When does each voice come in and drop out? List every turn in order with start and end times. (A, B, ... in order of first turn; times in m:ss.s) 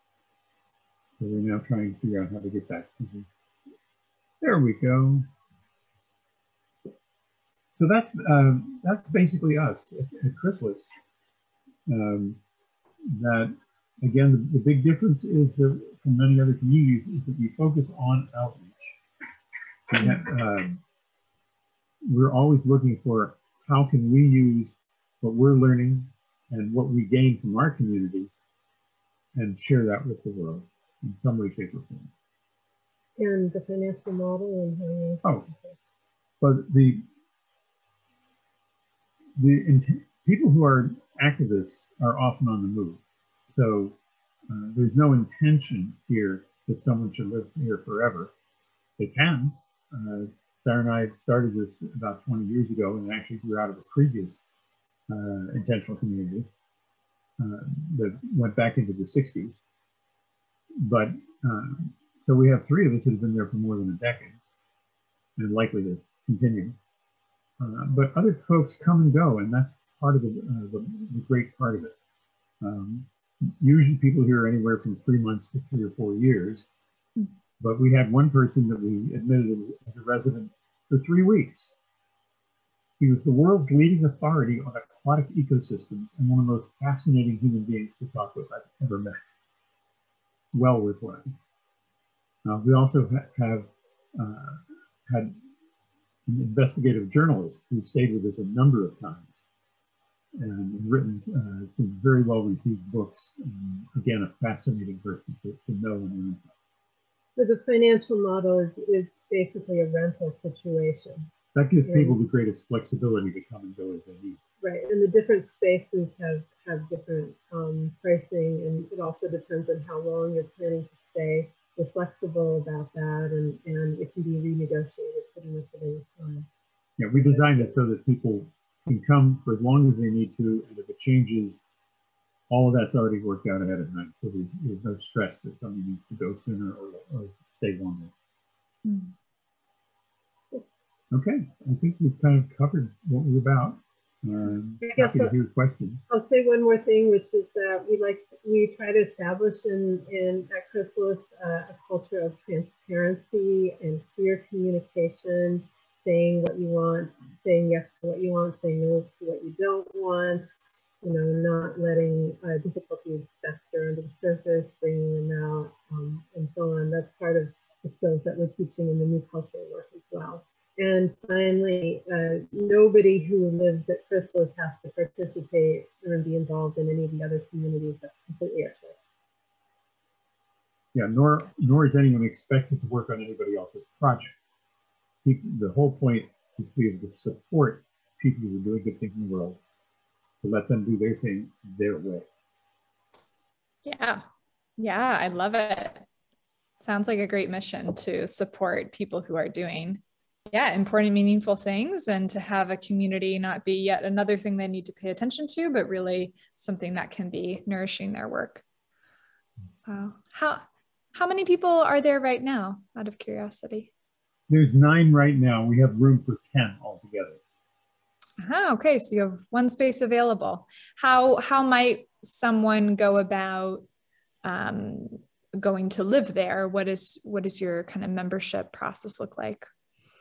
0:01.2-0:03.3 A
0:04.4-0:05.3 A
0:07.7-0:10.9 A
0:11.9-0:12.4 A
0:13.1-0:19.0 A
0:19.9-0:20.8 A
0:22.1-0:28.3 A
0:29.3-0:32.1 A
0:33.2-0:35.7 B
0:35.2-0:35.5 A
0:36.4-0:37.0 A
0:39.4-0:44.0 A
0:44.5-0:48.3 A
0:49.0-0:54.4 A
0:55.1-0:56.5 A
0:57.4-0:59.6 A
1:00.8-1:04.4 A
1:05.4-1:06.8 A
1:07.6-1:11.9 A
1:12.6-1:16.7 A
1:17.6-1:21.7 A
1:23.0-1:29.3 A
1:30.5-1:31.3 A
1:32.4-1:35.3 A
1:36.3-1:39.4 A
1:40.4-1:46.5 A
1:47.3-1:51.3 B
1:51.5-1:54.4 A
1:51.8-1:52.2 B
1:54.6-2:06.5 B
2:07.0-2:11.6 A
2:07.3-2:07.7 B
2:12.5-2:18.1 A
2:18.8-2:19.1 C
2:21.1-2:26.0 A
2:24.8-2:25.3 B
2:26.1-2:40.5 B
2:41.0-2:59.0 B
3:00.9-3:04.3 A
3:05.2-3:09.6 A
3:10.4-3:12.3 A
3:13.8-3:14.2 C
3:14.8-3:16.0 C
3:16.8-3:28.6 C
3:29.9-3:33.9 C
3:34.5-3:37.4 A
3:38.4-3:43.8 C
3:44.4-3:49.7 C